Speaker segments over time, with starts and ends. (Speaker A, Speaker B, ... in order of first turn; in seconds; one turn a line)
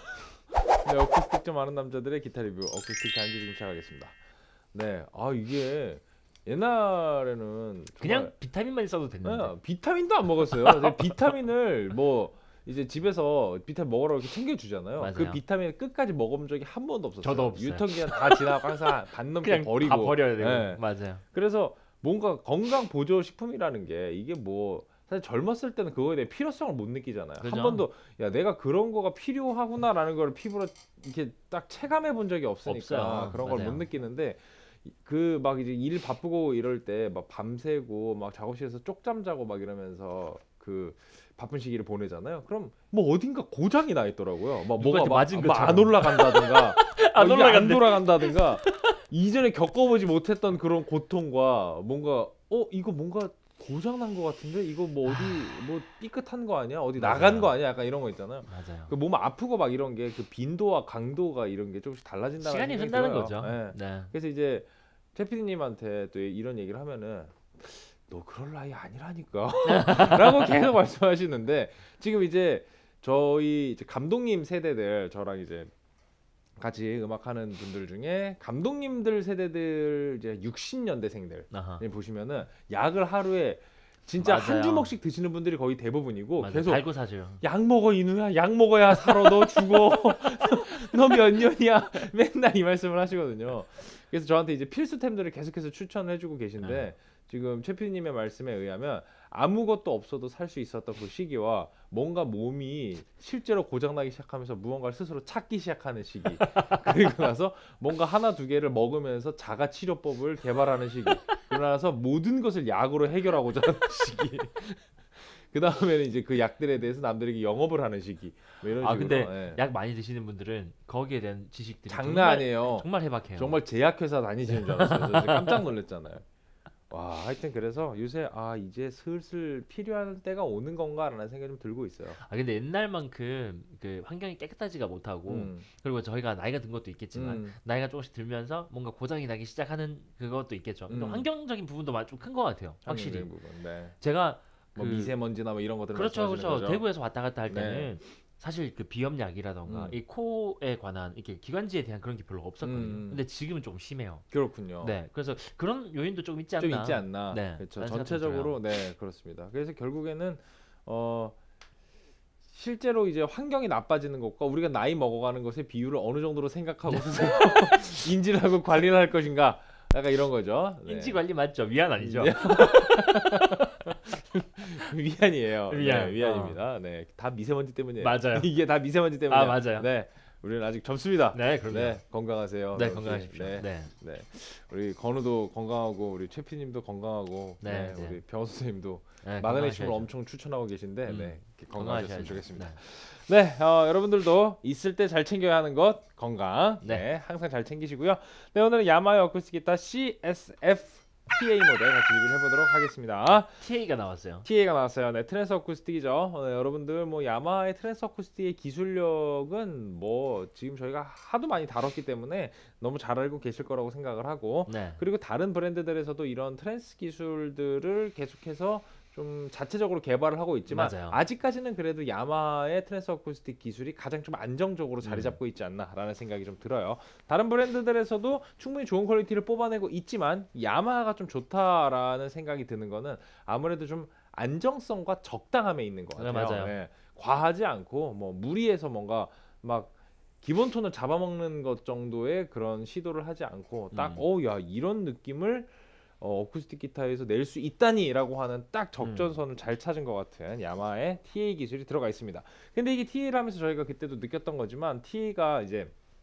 Speaker A: 0.8-4.1
Speaker A: 4.7-8.3
Speaker B: 8.0-9.6
Speaker A: 9.2-75.7
Speaker B: 10.5-11.0
Speaker B: 15.0-15.4
Speaker B: 17.2-18.4
Speaker B: 19.3-21.2
Speaker B: 27.4-27.9
Speaker B: 32.6-33.9
Speaker B: 44.7-49.0
Speaker B: 55.0-55.7
Speaker B: 57.0-57.5
Speaker B: 58.5-58.9
Speaker B: 62.4-64.1
Speaker B: 69.6-70.6
Speaker A: 76.6-86.9
Speaker B: 81.5-81.8
Speaker B: 84.2-85.0
Speaker B: 86.4-87.4
Speaker A: 87.4-119.6
Speaker B: 89.1-89.7
Speaker B: 96.6-96.9
Speaker B: 106.4-107.1
Speaker B: 118.7-123.6
Speaker A: 121.9-126.2
Speaker B: 124.5-125.7
Speaker A: 126.9-132.2
Speaker B: 132.1-143.4
Speaker A: 135.3-135.7
Speaker A: 137.1-137.6
Speaker A: 140.9-141.3
Speaker A: 142.9-143.9
Speaker B: 144.0-145.2
Speaker A: 144.8-146.9
Speaker B: 145.9-154.2
Speaker A: 147.5-147.9
Speaker A: 149.7-150.0
Speaker A: 152.6-153.2
Speaker A: 154.3-154.9
Speaker B: 154.8-158.6
Speaker A: 156.6-161.3
Speaker A: 162.5-171.2
Speaker B: 166.9-168.1
Speaker B: 170.8-173.9
Speaker A: 172.0-203.6
Speaker B: 175.7-176.6
Speaker B: 178.0-178.5
Speaker B: 179.3-179.9
Speaker B: 181.3-182.0
Speaker B: 182.7-183.9
Speaker B: 187.6-188.2
Speaker B: 189.2-190.1
Speaker B: 191.1-192.8
Speaker B: 196.8-197.1
Speaker B: 203.3-204.5
Speaker A: 204.4-255.9
Speaker B: 214.7-215.0
Speaker B: 220.7-221.2
Speaker B: 225.0-225.4
Speaker B: 236.2-236.8
Speaker B: 243.9-244.2
Speaker B: 249.0-249.4